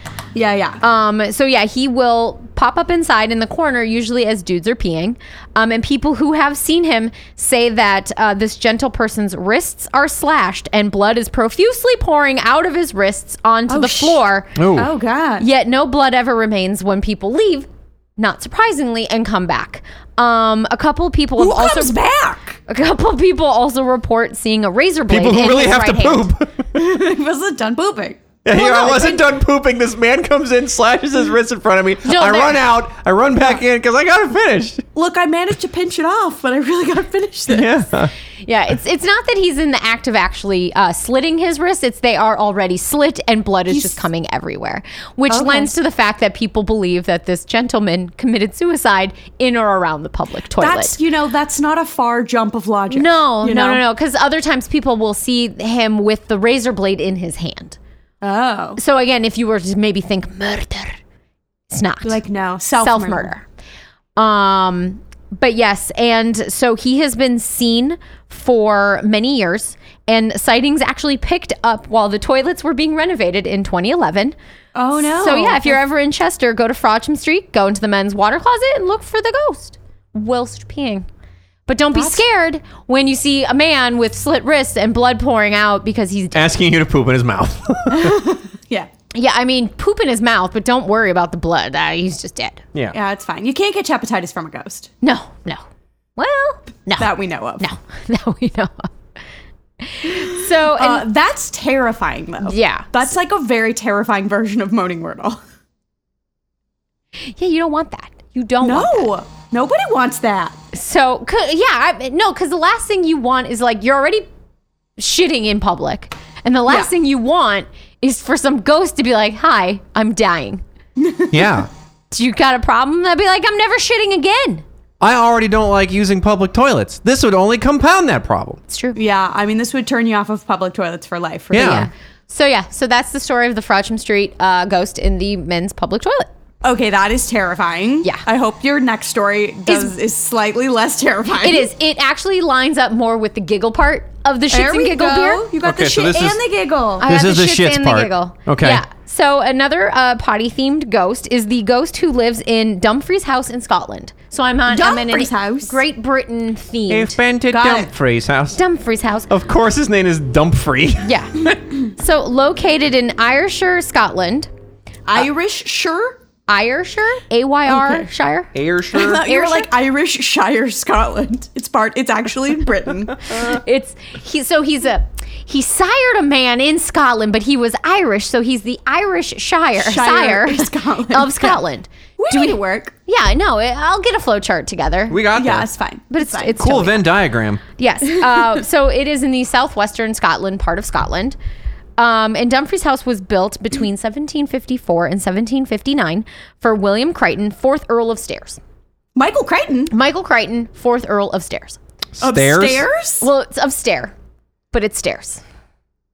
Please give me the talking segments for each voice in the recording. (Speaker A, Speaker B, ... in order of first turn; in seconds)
Speaker A: 0.3-0.8, 13.7-14.2, 14.8-15.4, 21.4-22.5, 26.7-29.0, 34.9-37.7, 43.7-44.0, 45.3-45.7, 50.5-53.8, 58.2-58.8, 62.0-63.3, 74.7-75.8, 81.9-82.2, 87.9-88.9, 92.9-94.9, 97.0-97.7, 100.1-105.4, 108.6-110.6, 121.0-121.6, 128.9-131.9, 136.6-141.7, 144.5-147.1, 154.7-155.8, 157.5-157.9, 165.1-166.2, 167.7-168.1, 168.9-173.2, 179.8-181.6, 182.2-182.9, 185.3-186.6, 199.2-199.9, 202.2-203.2
Speaker B: 0.8-14.6, 15.4-21.9, 22.7-26.3, 28.5-29.2, 32.0-32.6, 38.4-51.0, 52.9-57.8, 58.8-61.0, 61.7-62.2, 62.8-63.4, 64.2-74.3, 75.0-81.1, 81.7-86.5, 89.1-92.6, 95.0-95.6, 96.2-98.9, 99.8-101.0, 102.4-102.9, 107.2-109.1, 110.7-114.2, 115.0-120.6, 122.1-124.6, 128.7-129.0, 131.6-136.3, 139.7-139.9, 141.4-145.5, 147.0-157.2, 158.5-159.3, 161.0-164.5, 166.5-169.7, 173.3-185.2, 186.1-187.0, 187.8-191.3, 192.0-198.6, 199.9-201.8, 203.2-204.1, 204.7-205.4
Speaker C: 14.6-14.9, 25.1-26.9, 28.4-34.8, 37.5-38.1, 86.3-88.2, 121.3-121.7, 125.0-128.6, 131.5-131.9, 145.6-146.4, 147.0-148.8, 156.9-158.6, 159.3-161.4, 168.5-169.2, 185.1-185.7, 186.6-187.6, 202.2-202.8